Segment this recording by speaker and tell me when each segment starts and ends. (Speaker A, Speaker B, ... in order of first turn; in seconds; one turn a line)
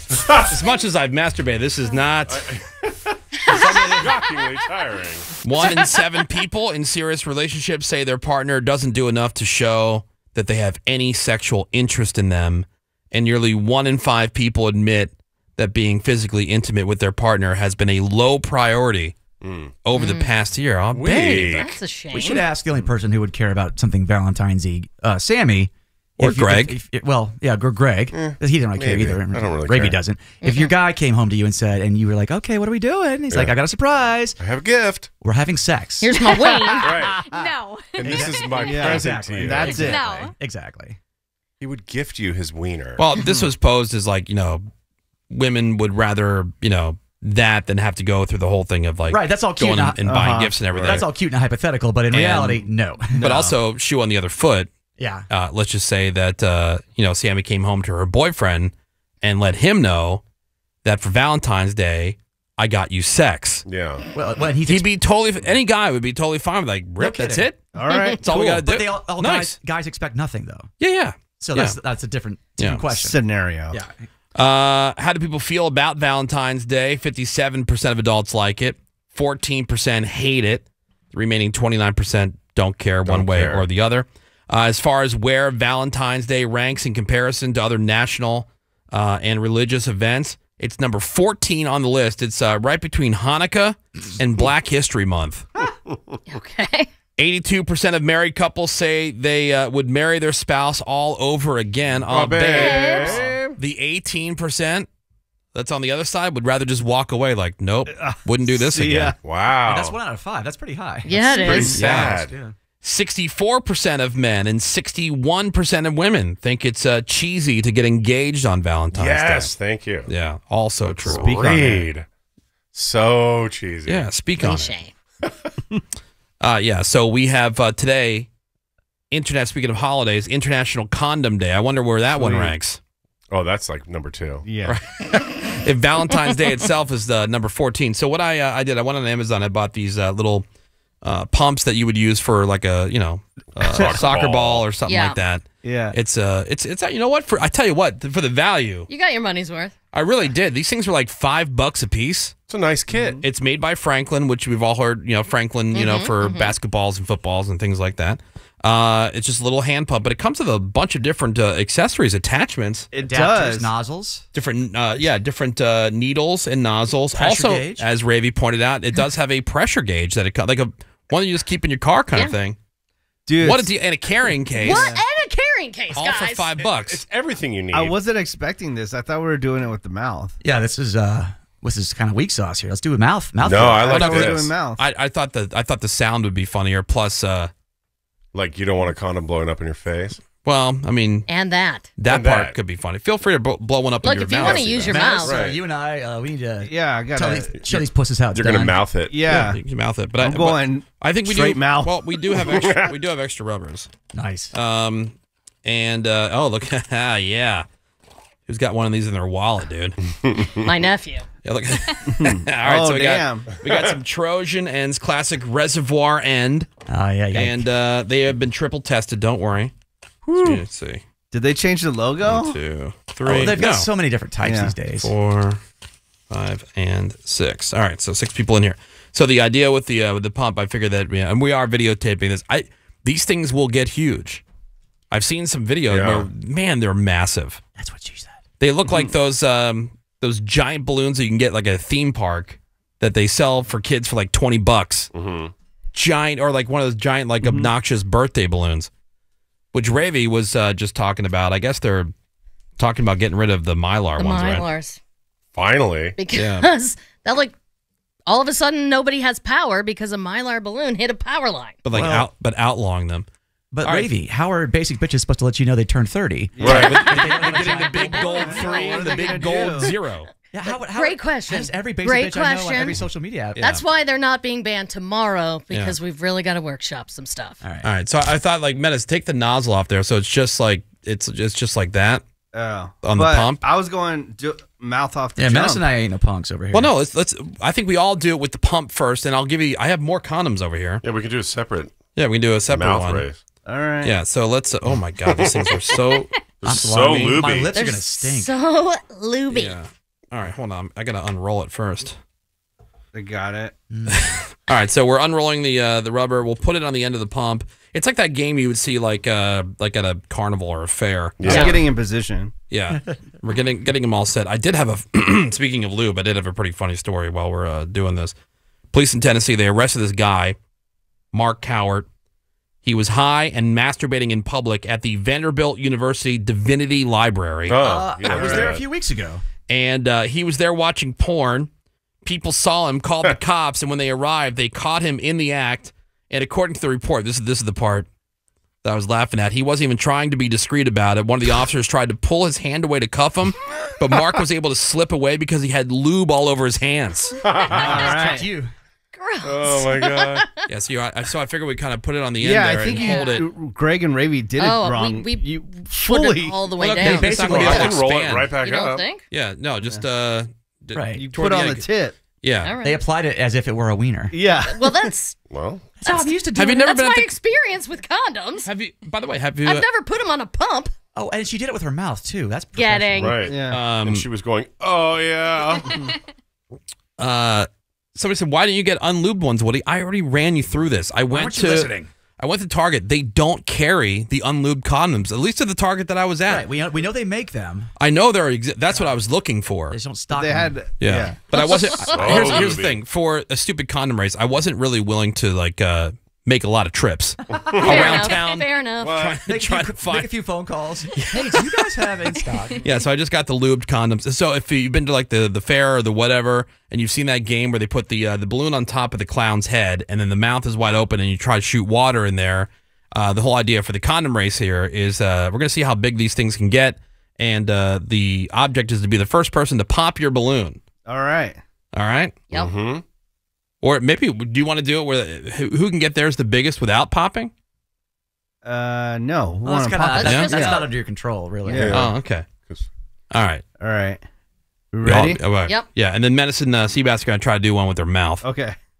Speaker A: 0.5-2.4
Speaker B: 2.3-5.3
Speaker C: 3.5-4.5
Speaker A: 3.5-4.1
Speaker A: 5.4-19.1
Speaker C: 5.6-5.9
Speaker B: 19.4-19.7
Speaker A: 19.8-21.7
Speaker C: 19.9-20.3
Speaker B: 20.9-21.7
Speaker C: 21.4-22.4
Speaker D: 22.1-34.4
Speaker A: 26.2-26.8
Speaker B: 28.1-30.0
Speaker C: 30.4-30.7
Speaker B: 33.3-33.5
Speaker B: 34.4-35.1
Speaker D: 35.2-36.8
Speaker C: 36.0-37.2
Speaker E: 36.7-38.9
Speaker B: 36.8-37.2
Speaker B: 38.0-40.0
Speaker D: 38.0-41.0
Speaker F: 38.6-40.0
Speaker E: 39.8-40.3
Speaker B: 41.6-43.0
Speaker A: 43.0-44.6
Speaker A: 45.3-51.1
Speaker D: 49.1-50.1
Speaker F: 50.0-50.6
Speaker B: 50.6-51.0
Speaker D: 50.8-53.2
Speaker A: 52.1-52.6
Speaker F: 53.1-53.5
Speaker A: 53.2-54.7
Speaker D: 55.0-55.3
Speaker A: 55.3-60.2
Speaker A: 60.8-63.6
Speaker B: 63.6-64.0
Speaker D: 64.1-64.9
Speaker A: 64.7-69.5
Speaker D: 67.0-67.5
Speaker F: 67.7-68.2
Speaker D: 68.2-70.7
Speaker A: 70.8-71.8
Speaker D: 71.4-73.2
Speaker A: 72.6-72.9
Speaker F: 72.9-73.8
Speaker A: 74.3-95.5
Speaker B: 83.0-83.6
Speaker C: 96.3-96.9
Speaker A: 97.2-104.9
Speaker B: 102.1-103.4
Speaker C: 102.5-103.2
Speaker A: 105.5-109.1
Speaker F: 107.9-109.2
Speaker B: 109.2-110.0
Speaker D: 109.6-112.5
Speaker C: 111.0-111.8
Speaker B: 111.4-112.3
Speaker A: 111.6-112.2
Speaker A: 112.8-119.5
Speaker B: 118.9-120.1
Speaker A: 120.0-121.8
Speaker B: 120.8-122.0
Speaker F: 121.1-121.7
Speaker B: 122.7-124.1
Speaker A: 123.8-124.7
Speaker C: 124.4-124.9
Speaker A: 126.4-128.3
Speaker A: 129.1-132.8
Speaker F: 132.1-132.5
Speaker B: 133.3-134.4
Speaker F: 134.4-134.8
Speaker A: 134.6-140.4
Speaker A: 141.0-148.9
Speaker B: 143.6-144.7
Speaker C: 144.8-145.2
Speaker F: 145.6-145.9
Speaker C: 148.9-149.7
Speaker A: 149.9-152.3
Speaker B: 152.5-153.2
Speaker F: 152.9-153.2
Speaker A: 153.2-162.9
Speaker C: 155.7-156.5
Speaker F: 162.9-163.7
Speaker D: 163.0-164.2
Speaker A: 164.3-172.6
Speaker D: 167.1-167.9
Speaker F: 173.2-173.7
Speaker A: 173.4-175.0
Speaker C: 174.6-176.5
Speaker F: 174.7-175.0
Speaker A: 175.9-177.0
Speaker B: 176.6-177.9
Speaker F: 177.7-180.3
Speaker D: 180.4-184.4
Speaker B: 183.4-184.4
Speaker F: 183.8-184.8
Speaker A: 183.9-187.5
Speaker B: 188.3-190.2
Speaker A: 190.4-191.3
Speaker C: 191.3-191.9
Speaker A: 192.0-195.1
Speaker B: 192.1-192.6
Speaker C: 194.0-195.4
Speaker B: 194.4-195.6
Speaker D: 194.7-198.8
Speaker F: 196.6-197.6
Speaker B: 197.6-199.2
Speaker F: 199.1-199.6
Speaker A: 199.3-203.9
Speaker F: 200.2-202.3
Speaker B: 202.4-202.9
Speaker D: 204.1-204.5
Speaker A: 204.5-207.6
Speaker A: 208.4-210.0
Speaker B: 210.2-210.5
Speaker C: 210.6-211.2
Speaker A: 211.4-216.7
Speaker F: 212.0-213.5
Speaker B: 213.7-213.9
Speaker D: 216.9-217.7
Speaker A: 217.3-219.7
Speaker A: 220.3-221.0
Speaker F: 221.3-222.6
Speaker A: 222.2-223.9
Speaker D: 223.2-225.1
Speaker F: 224.4-224.7
Speaker A: 225.0-225.6
Speaker A: 226.3-234.4
Speaker A: 235.1-237.6
Speaker B: 235.9-236.3
Speaker D: 237.8-238.4
Speaker A: 238.6-245.1
Speaker B: 245.1-245.5
Speaker A: 245.9-248.9
Speaker F: 247.4-247.7
Speaker A: 249.7-252.1
Speaker A: 252.8-254.7
Speaker C: 254.2-255.0
Speaker B: 255.5-256.2
Speaker C: 256.2-257.5
Speaker A: 256.3-256.7
Speaker C: 258.3-261.8
Speaker A: 261.8-263.2
Speaker D: 261.9-262.3
Speaker D: 263.7-268.5
Speaker A: 263.8-264.1
Speaker F: 266.6-266.9
Speaker B: 266.6-267.0
Speaker A: 266.6-270.3
Speaker C: 267.8-269.4
Speaker F: 268.2-269.9
Speaker D: 270.5-273.6
Speaker C: 270.9-273.0
Speaker A: 273.5-273.8
Speaker C: 273.6-277.6
Speaker D: 277.6-277.9
Speaker A: 277.8-282.2
Speaker F: 282.5-285.8
Speaker A: 283.0-283.6
Speaker D: 285.4-286.9
Speaker A: 286.7-291.0
Speaker B: 291.0-291.9
Speaker A: 292.1-293.3
Speaker B: 292.7-293.4
Speaker F: 293.6-294.1
Speaker A: 294.0-296.3
Speaker B: 295.2-295.9
Speaker B: 296.6-297.7
Speaker D: 296.6-298.5
Speaker A: 297.0-297.4
Speaker C: 297.7-299.8
Speaker A: 299.5-302.2
Speaker F: 303.1-303.7
Speaker D: 303.9-304.2
Speaker A: 304.1-311.8
Speaker B: 311.4-311.8
Speaker C: 311.4-311.8
Speaker F: 311.6-312.5
Speaker A: 312.7-318.3
Speaker A: 318.9-320.6
Speaker A: 321.3-322.1
Speaker A: 322.8-328.7
Speaker B: 327.7-328.8
Speaker D: 327.8-329.4
Speaker A: 329.7-331.7
Speaker A: 332.2-338.1
Speaker A: 338.8-347.4
Speaker B: 347.4-348.1
Speaker D: 347.7-348.7
Speaker C: 347.7-348.1
Speaker F: 347.8-348.5
Speaker C: 349.1-350.6
Speaker B: 349.4-350.4
Speaker A: 350.7-353.5
Speaker F: 352.4-356.6
Speaker C: 352.9-353.4
Speaker C: 354.6-357.9
Speaker A: 356.8-358.5
Speaker D: 357.0-358.0
Speaker B: 357.4-359.1
Speaker C: 358.6-359.2
Speaker A: 359.3-361.9
Speaker D: 360.9-361.2
Speaker F: 361.2-362.1
Speaker A: 362.4-362.7
Speaker C: 362.6-363.0
Speaker D: 362.8-364.4
Speaker F: 364.3-365.1
Speaker C: 364.6-365.4
Speaker B: 365.5-365.9
Speaker D: 366.0-366.8
Speaker C: 366.1-368.7
Speaker A: 366.6-367.3
Speaker A: 368.6-369.9
Speaker C: 369.6-370.9
Speaker D: 371.1-373.5
Speaker C: 372.7-373.4
Speaker B: 373.2-376.1
Speaker F: 373.4-373.8
Speaker A: 373.7-374.3
Speaker A: 377.2-386.7
Speaker D: 381.3-382.1
Speaker D: 386.4-387.9
Speaker A: 388.0-390.0
Speaker D: 388.9-389.2
Speaker D: 389.9-390.7
Speaker F: 390.3-391.4
Speaker A: 391.0-400.3
Speaker C: 391.5-392.7
Speaker B: 392.1-393.0
Speaker B: 397.6-398.3
Speaker C: 397.8-399.3
Speaker B: 399.0-399.4
Speaker D: 399.4-402.8
Speaker A: 401.1-401.7
Speaker A: 402.7-420.8
Speaker F: 421.1-421.6
Speaker A: 421.9-422.4
Speaker B: 422.5-423.0
Speaker A: 423.8-427.5
Speaker F: 428.6-430.8
Speaker D: 429.6-432.1
Speaker C: 430.1-430.9
Speaker A: 430.2-430.6
Speaker B: 431.6-432.9
Speaker F: 431.7-432.0
Speaker A: 431.9-432.5
Speaker A: 433.3-433.6
Speaker F: 433.8-434.2
Speaker F: 434.9-435.4
Speaker A: 435.0-438.4
Speaker F: 438.4-438.8